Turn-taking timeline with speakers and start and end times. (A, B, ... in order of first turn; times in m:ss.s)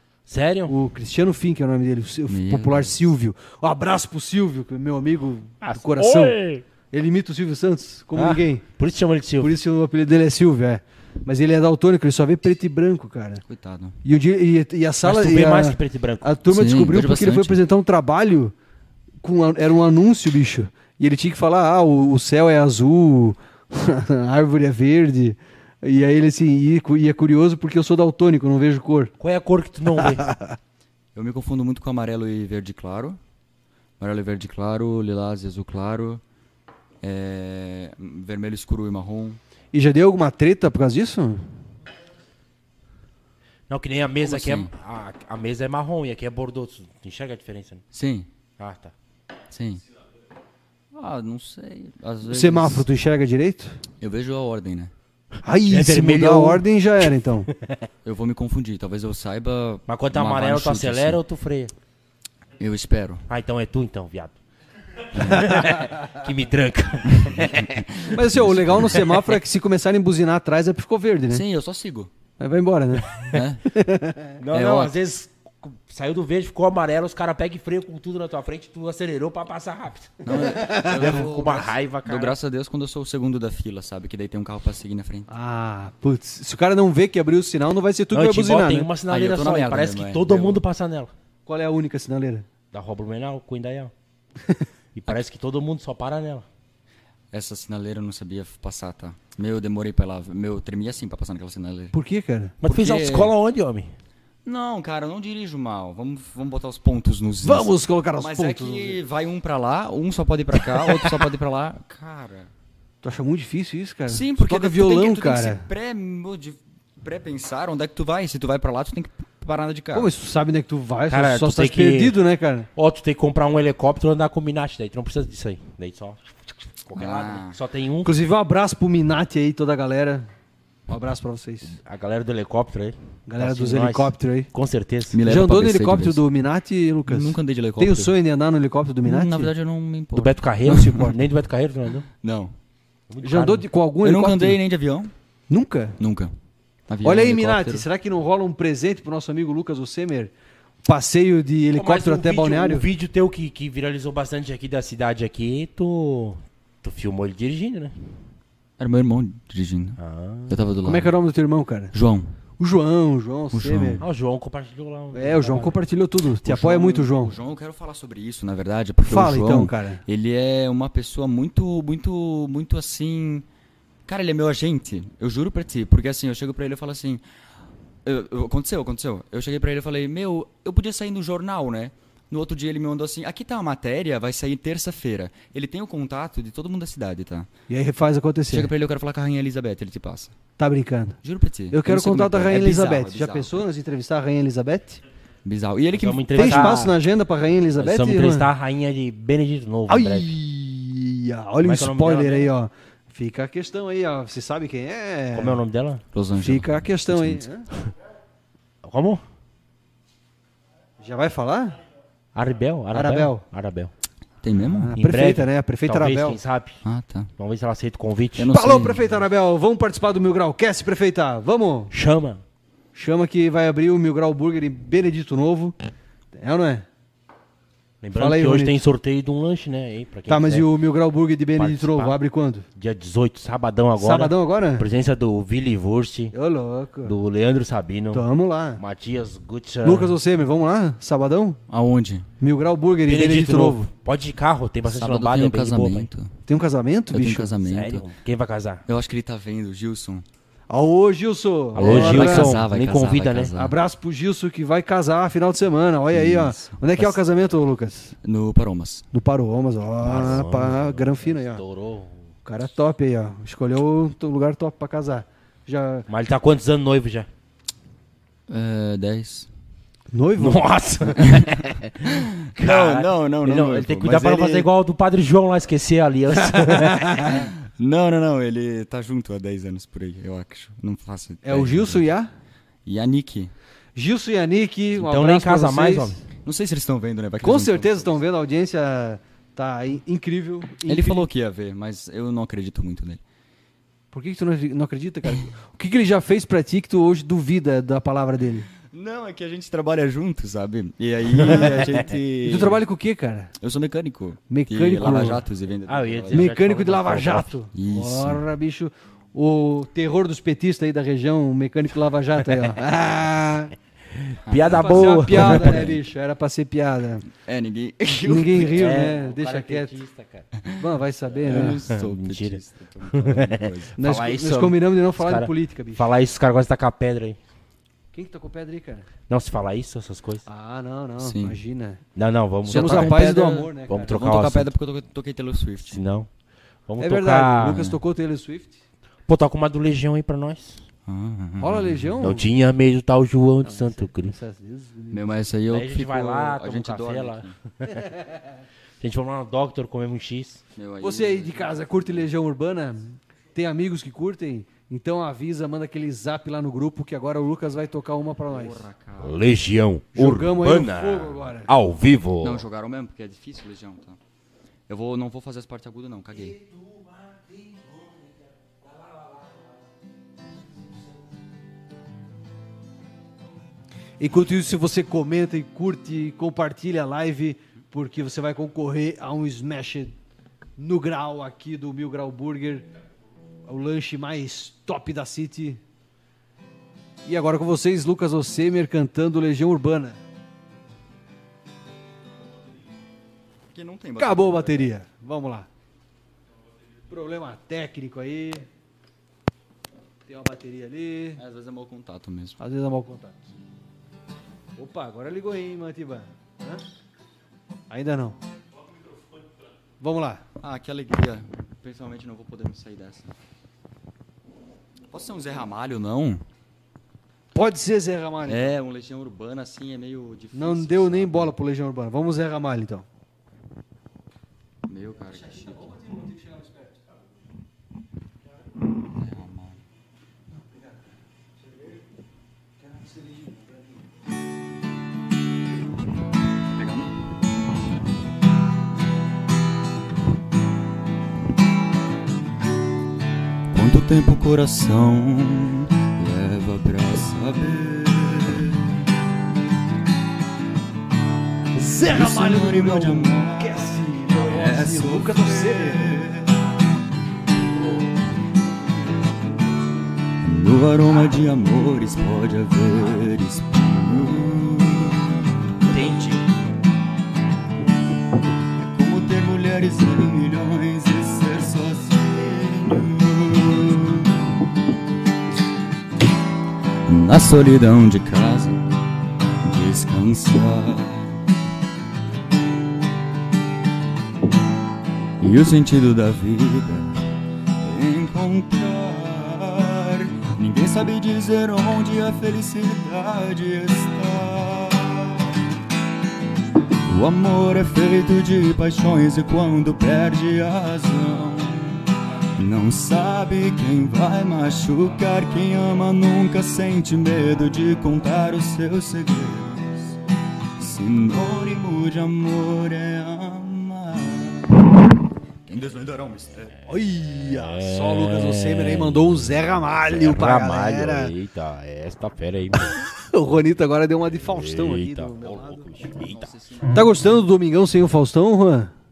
0:00.3-0:00.8 A
0:00.7-0:06.4 B
0:02.3-0:03.0 C
0:05.6-0:06.6 A
0:06.9-0:08.6 B
0:08.1-0:09.5 A
0:09.4-0:13.4 B
0:13.5-0:14.0 C
0:14.0-0:18.5 B
0:15.0-0:16.4 A
0:16.5-0:17.6 C
0:19.2-0:29.1 B
0:29.2-0:30.2 A
0:30.1-0:30.6 B
0:31.1-0:33.2 C
0:34.0-0:36.2 C
0:37.0-0:39.4 C
0:39.7-0:41.5 B
0:43.7-0:47.8 A
0:44.2-0:44.7 C
0:47.9-0:48.3 C
0:48.6-0:48.9 A
0:49.5-0:49.8 C
0:50.9-0:52.8 C
0:52.3-0:53.8 B
0:54.0-0:54.9 C
0:55.4-0:57.5 B
0:55.7-0:56.6 A
0:57.5-0:57.8 A
0:58.0-1:01.2 C
0:59.9-1:01.7 A
1:02.6-1:03.2 C
1:03.3-1:04.3 A
1:05.1-1:08.0 A
1:07.2-1:09.0 C
1:08.1-1:11.4 B
1:11.3-1:12.1 C
1:12.4-1:14.3 B
1:13.2-1:13.8 C
1:14.4-1:22.3 A
1:14.5-1:14.9 C
1:20.2-1:25.3 C
1:20.3-1:21.6 B
1:25.3-1:28.9 B
1:28.1-1:31.1 A
1:29.1-1:30.6 C
1:31.4-1:32.4 B
1:32.7-1:33.9 A
1:34.9-1:36.4 A
1:37.3-1:41.9 C
1:41.9-1:42.5 B
1:42.6-1:43.9 A
1:42.6-1:43.3 C
1:44.4-1:52.5 C
1:47.4-1:49.0 B
1:53.0-1:55.6 B
1:54.1-2:00.1 C
1:59.9-2:02.7 B
2:01.1-2:02.2 A
2:02.8-2:06.3 A
2:06.8-2:08.1 A
2:07.0-2:07.6 C
2:08.0-2:10.3 B
2:10.9-2:11.7 B
2:11.7-2:15.2 A
2:13.3-2:14.5 B
2:15.1-2:16.2 C
2:15.2-2:19.5 B
2:17.0-2:18.1 C
2:19.0-2:21.1 C
2:20.1-2:22.0 A
2:22.2-2:22.5 C
2:23.1-2:23.6 A
2:23.2-2:24.6 B
2:24.0-2:25.1 C
2:25.5-2:26.0 B
2:26.0-2:26.3 C
2:26.9-2:27.8 C
2:27.0-2:30.3 B
2:30.8-2:32.9 B
2:31.8-2:37.9 A
2:38.8-2:41.1 C
2:40.0-2:40.6 A
2:40.8-2:41.9 B
2:41.9-2:42.3 C
2:42.6-2:44.0 B
2:43.5-2:44.0 C
2:44.0-2:45.8 A
2:45.1-2:47.3 B
2:46.4-2:53.4 C
2:49.0-2:50.0 B
2:54.0-2:57.2 C
2:58.0-3:07.5 C
3:07.7-3:08.7 B
3:08.5-3:10.3 C
3:10.6-3:11.2 B
3:11.2-3:13.7 C
3:11.7-3:15.0 B
3:15.4-3:16.8 C
3:15.9-3:16.9 A
3:16.3-3:18.5 B
3:17.8-3:20.3 A
3:19.9-3:25.6 B
3:21.6-3:22.5 A
3:25.3-3:26.0 A
3:26.1-3:27.4 C
3:26.4-3:27.7 B
3:28.8-3:29.2 A
3:31.0-3:31.8 B
3:32.3-3:33.9 A
3:32.9-3:33.4 B
3:34.4-3:34.9 C
3:34.6-3:36.4 B
3:35.0-3:36.8 A
3:36.8-3:37.3 C
3:37.4-3:38.5 A
3:38.4-3:39.1 C
3:38.5-3:41.9 B
3:41.9-3:42.4 A
3:42.9-3:45.7 B
3:46.3-3:46.9 B
3:48.0-3:50.7 A
3:48.2-3:48.8 B
3:50.3-3:52.6 B
3:51.6-3:52.2 A
3:52.8-3:56.3 A
3:54.0-3:54.8 B
3:56.3-3:57.1 B
3:57.0-3:58.2 A
3:58.1-3:58.8 B
3:58.8-4:00.2 A
3:59.8-4:01.6 B
4:01.7-4:02.3 C
4:02.4-4:03.9 B
4:03.0-4:06.1 A
4:04.8-4:06.3 C
4:06.5-4:07.5 B
4:07.1-4:08.0 C
4:07.6-4:08.8 A
4:08.9-4:10.2 C
4:10.7-4:12.6 B
4:11.7-4:13.5 A
4:11.8-4:13.7 C
4:13.5-4:18.2 B
4:16.1-4:16.8 C
4:18.2-4:19.0 C
4:19.1-4:21.6 B
4:20.0-4:22.3 A
4:22.4-4:26.0 B
4:26.1-4:27.3 A
4:28.5-4:29.5 C
4:30.1-4:30.6 B
4:30.4-4:37.2 A
4:31.2-4:34.7 C
4:36.6-4:37.3 B
4:37.2-4:42.0 C
4:41.4-4:42.3 B
4:42.8-4:43.5 C
4:43.9-4:46.2 B
4:45.0-4:46.2 A
4:46.4-4:48.2 C
4:47.4-4:51.2 B
4:50.8-4:53.2 C
4:54.1-4:58.7 B
4:58.9-5:02.8 C
5:02.4-5:03.5 B
5:03.6-5:06.5 C
5:04.5-5:05.4 B
5:05.9-5:07.5 A
5:06.3-5:13.7 B
5:07.7-5:08.4 C
5:14.1-5:15.9 A
5:14.4-5:16.0 C
5:14.7-5:17.2 B
5:17.4-5:19.1 C
5:18.2-5:19.9 B
5:18.7-5:20.5 A
5:20.8-5:21.8 B
5:21.4-5:27.4 A
5:21.4-5:24.0 C
5:24.0-5:26.1 B
5:28.1-5:29.1 B
5:29.3-5:30.4 A
5:30.5-5:32.0 B
5:31.2-5:31.6 C
5:32.2-5:33.2 A
5:32.6-5:36.0 C
5:32.7-5:34.2 B
5:33.9-5:34.7 A
5:35.9-5:36.3 A
5:36.9-5:37.9 A
5:37.0-5:38.8 B
5:39.3-5:40.8 A
5:41.1-5:42.1 C
5:41.6-5:42.5 B
5:42.2-5:44.4 A
5:43.6-5:45.3 B
5:45.1-5:47.5 C
5:45.7-5:47.9 A
5:49.0-5:50.6 A
5:50.8-5:52.0 C
5:51.0-5:58.8 B
5:58.5-5:59.4 C
5:59.2-6:02.6 A
6:00.1-6:01.7 B
6:02.4-6:04.2 C
6:04.9-6:06.6 C
6:06.4-6:09.7 A
6:14.2-6:20.1 B
6:20.8-6:22.8 B
6:23.6-6:25.8 B
6:27.2-6:30.2 B
6:33.7-6:34.9 C
6:34.2-6:35.7 B
6:37.1-6:38.7 B
6:40.3-6:41.4 B
6:41.4-6:42.6 C
6:42.6-6:43.4 B
6:44.8-6:46.8 B
6:47.9-6:48.4 B
6:50.0-6:50.4 B
6:50.6-6:53.3 C
6:55.1-6:56.4 C
6:57.5-6:58.7 B
6:58.4-7:01.5 C
7:00.5-7:03.0 B
7:04.9-7:05.9 C
7:05.6-7:07.0 B
7:09.1-7:09.8 C
7:12.8-7:13.8 B
7:16.7-7:17.1 C
7:23.7-7:29.0 C
7:31.7-7:36.2 B
7:32.0-7:36.5 C
7:40.4-7:45.4 C
7:45.9-7:46.4 A
7:48.8-7:54.4 C
7:57.0-7:58.9 C
7:59.6-8:01.3 C
8:05.4-8:07.1 C
8:07.8-8:15.5 C
8:17.1-8:22.0 C
8:22.6-8:30.2 C
8:30.8-8:34.8 C
8:35.7-8:36.7 C
8:36.9-8:41.3 B
8:37.3-8:43.0 A
8:42.9-8:45.9 B
8:44.4-8:46.5 A
8:46.3-8:47.3 C
8:46.9-8:48.9 B